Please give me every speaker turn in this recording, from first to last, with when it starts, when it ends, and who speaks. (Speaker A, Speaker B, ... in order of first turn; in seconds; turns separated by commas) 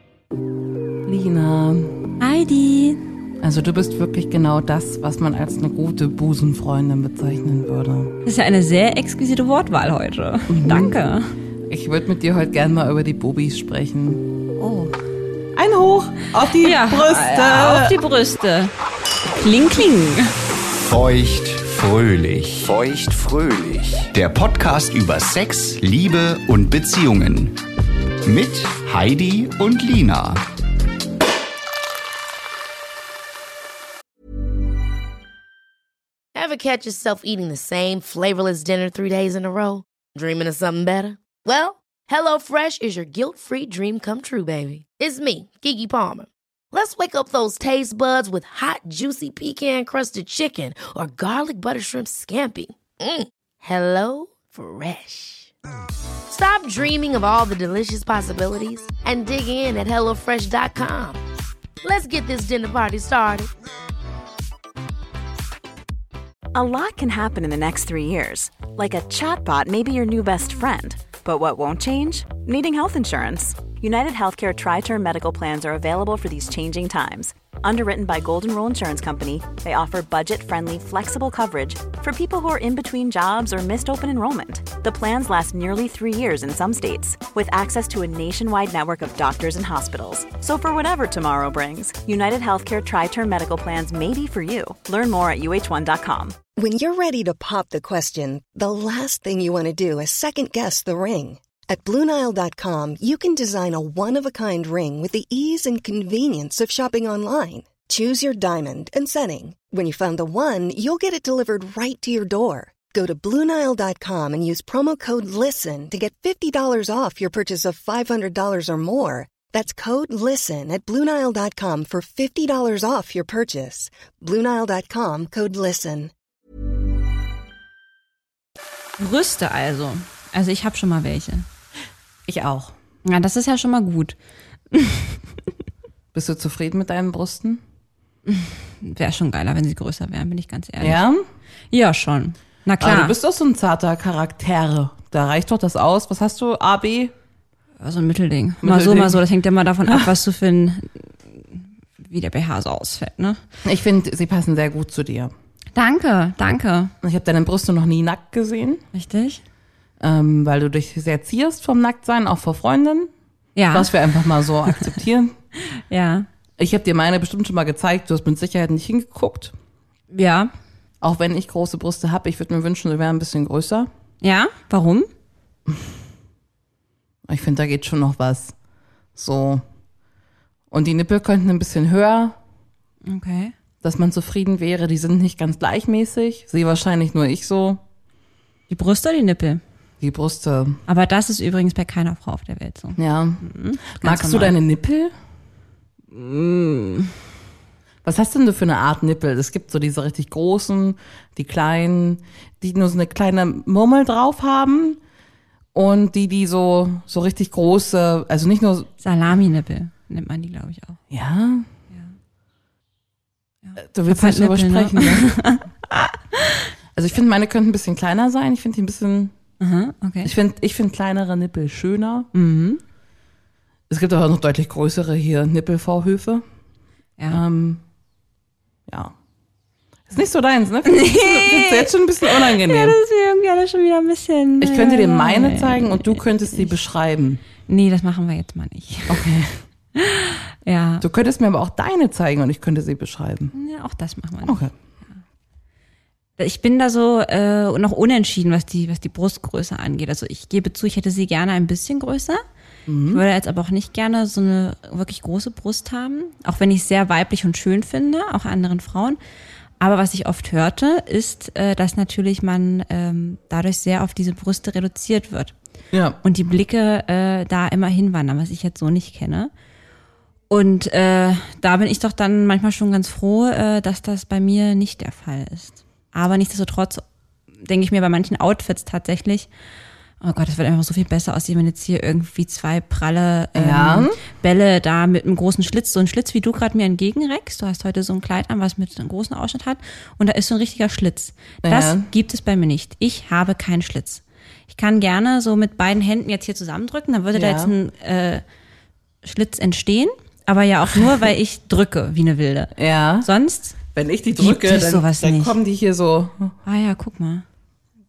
Speaker A: 1.0-2.2, Speaker B: 2.2-3.0, Speaker A: 3.4-8.2, Speaker B: 8.2-11.2, Speaker A: 10.5-11.0, Speaker A: 11.7-14.3, Speaker B: 14.6-14.9, Speaker A: 15.6-18.0, Speaker B: 16.6-18.7, Speaker B: 19.4-20.3, Speaker C: 20.7-27.6, Speaker C: 28.2-30.4, Speaker D: 36.4-55.5, Speaker D: 56.3-61.2, Speaker D: 61.8-63.5, Speaker E: 66.5-96.3, Speaker F: 96.6-126.1, Speaker B: 129.0-131.5, Speaker A: 132.3-132.8, Speaker B: 133.1-134.2, Speaker B: 134.7-135.2, Speaker A: 136.1-137.6, Speaker B: 138.3-141.0, Speaker A: 140.8-141.2, Speaker B: 141.7-143.2, Speaker A: 142.8-147.1, Speaker B: 147.8-153.4, Speaker A: 148.6-149.2, Speaker A: 153.7-155.3, Speaker B: 155.8-156.9, Speaker A: 157.0-158.8, Speaker B: 158.9-159.4, Speaker A: 160.0-163.1, Speaker B: 163.6-163.9, Speaker A: 163.7-165.3, Speaker B: 165.7-166.3, Speaker A: 166.6-169.5, Speaker B: 170.1-170.5, Speaker A: 171.0-173.9, Speaker B: 174.2-175.1, Speaker A: 177.3-178.6, Speaker A: 179.2-179.6, Speaker A: 180.7-182.4, Speaker B: 183.1-183.5, Speaker A: 183.8-187.8, Speaker B: 188.7-189.6, Speaker A: 190.0-190.8, Speaker B: 190.9-194.6, Speaker A: 193.0-195.1, Speaker B: 196.1-197.2, Speaker A: 198.0-205.0, Speaker A: 205.7-208.9, Speaker B: 209.0-211.0, Speaker A: 211.1-211.7, Speaker B: 213.6-216.7, Speaker A: 213.8-215.3, Speaker A: 216.9-219.3, Speaker B: 219.6-220.3, Speaker A: 220.2-222.3, Speaker B: 222.3-222.8, Speaker A: 223.9-226.4, Speaker A: 227.3-227.8, Speaker A: 228.9-229.1, Speaker A: 230.1-233.0, Speaker B: 230.9-236.7, Speaker A: 234.6-237.4, Speaker B: 237.7-239.2, Speaker A: 239.1-239.6, Speaker B: 239.9-241.0, Speaker A: 241.0-243.5, Speaker B: 243.5-244.6, Speaker A: 244.4-244.7, Speaker B: 246.4-252.4, Speaker A: 252.9-253.2, Speaker B: 253.1-259.2, Speaker B: 259.8-265.5, Speaker A: 265.9-266.2, Speaker B: 266.2-269.5, Speaker B: 270.5-277.0, Speaker B: 277.6-279.5, Speaker B: 280.2-298.4, Speaker A: 283.6-284.2, Speaker A: 291.6-292.1, Speaker A: 297.3-297.8, Speaker B: 299.2-302.7, Speaker A: 300.9-301.3, Speaker A: 302.8-303.3, Speaker B: 303.2-303.8, Speaker A: 303.9-306.5, Speaker B: 304.4-305.6, Speaker B: 306.6-307.4